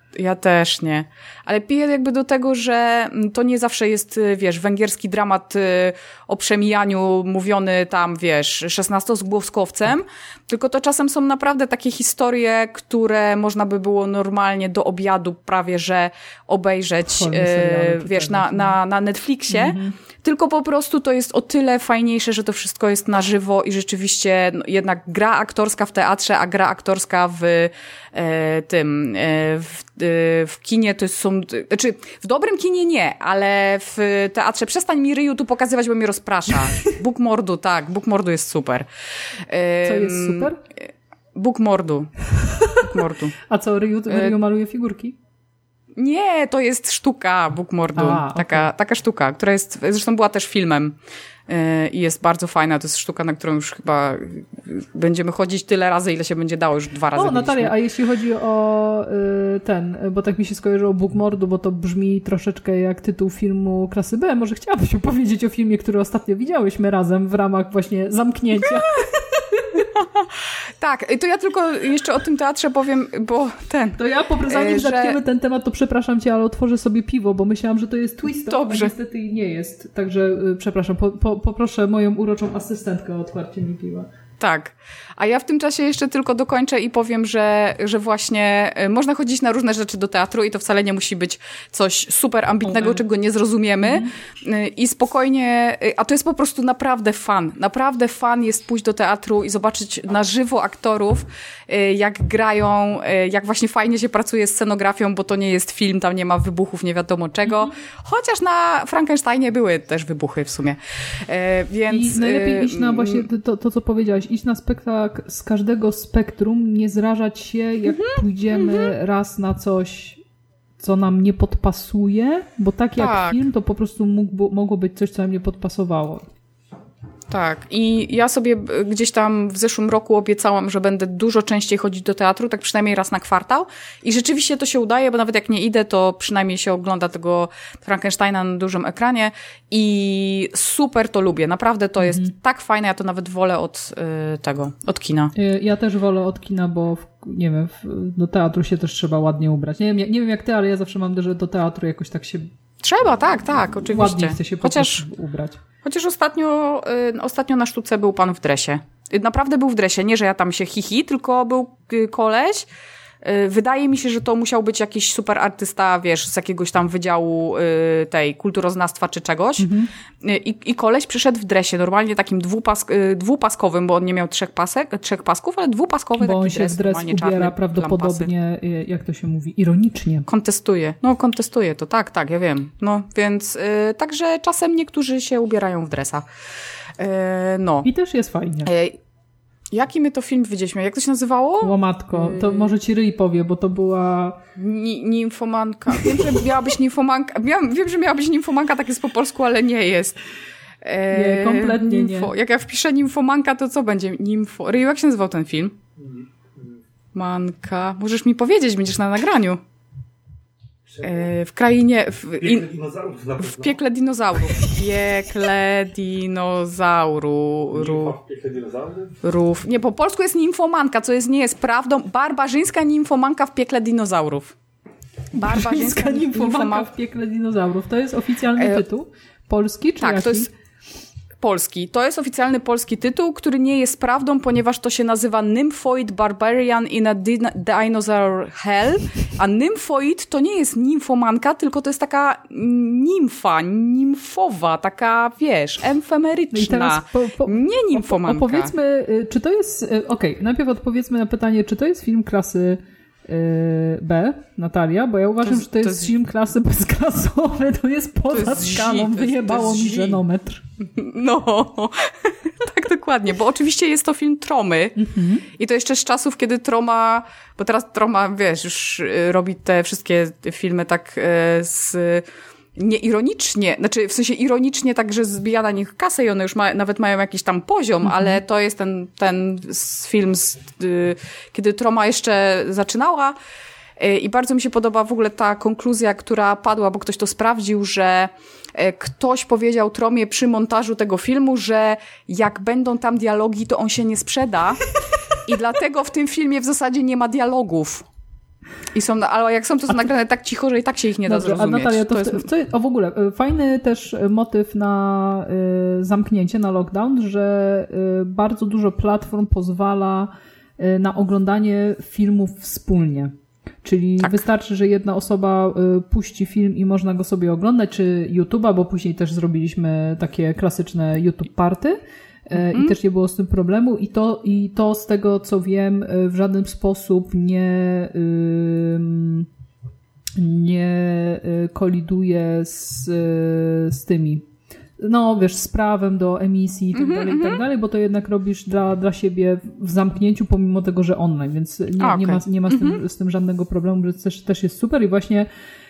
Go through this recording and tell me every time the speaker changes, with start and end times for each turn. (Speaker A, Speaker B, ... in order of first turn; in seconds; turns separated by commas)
Speaker A: 0.1-38.9, Speaker B: 17.1-18.8, Speaker B: 19.5-20.0, Speaker A: 39.4-42.1, Speaker B: 39.8-40.6, Speaker B: 42.4-42.9, Speaker A: 42.8-43.4, Speaker B: 43.5-45.2, Speaker A: 44.1-44.3, Speaker A: 46.0-51.0, Speaker B: 48.0-48.7, Speaker A: 51.5-57.7, Speaker B: 57.1-69.9, Speaker A: 69.9-75.2, Speaker B: 74.0-84.1, Speaker A: 78.5-78.9, Speaker A: 84.4-113.3, Speaker B: 92.6-93.0, Speaker B: 93.8-94.1, Speaker B: 111.9-120.2, Speaker A: 117.9-118.9, Speaker B: 120.8-126.3, Speaker A: 123.0-123.4, Speaker A: 127.3-145.3, Speaker B: 142.0-142.3, Speaker B: 145.3-152.5, Speaker A: 152.8-155.1, Speaker B: 153.9-155.6, Speaker A: 155.8-162.7, Speaker A: 163.2-169.7, Speaker B: 169.6-169.9, Speaker A: 170.2-178.3, Speaker B: 176.2-180.3, Speaker A: 180.3-186.2, Speaker A: 187.0-187.9, Speaker B: 187.8-188.7, Speaker A: 188.7-189.0, Speaker A: 189.7-192.7, Speaker B: 191.6-194.4, Speaker A: 194.6-200.2, Speaker B: 196.0-196.4, Speaker A: 200.8-205.8, Speaker B: 201.1-202.3, Speaker C: 206.0-206.7, Speaker A: 207.2-209.6, Speaker A: 211.0-212.7, Speaker C: 212.4-213.7, Speaker A: 213.4-218.2, Speaker C: 217.7-219.2, Speaker A: 219.2-224.6, Speaker A: 225.3-226.9, Speaker B: 225.3-230.5, Speaker A: 228.6-228.8, Speaker A: 230.0-230.5, Speaker A: 231.4-248.7, Speaker B: 246.5-260.6, Speaker A: 255.4-256.1, Speaker A: 258.3-260.2, Speaker A: 260.8-265.0, Speaker B: 265.0-265.5, Speaker A: 265.5-283.4, Speaker B: 278.1-278.4, Speaker A: 284.0-294.8, Speaker A: 295.4-298.1, Speaker A: 298.9-302.5, Speaker B: 301.3-329.5, Speaker A: 322.6-322.9, Speaker B: 330.4-334.5, Speaker B: 335.0-345.5, Speaker A: 336.9-337.6, Speaker A: 342.0-343.0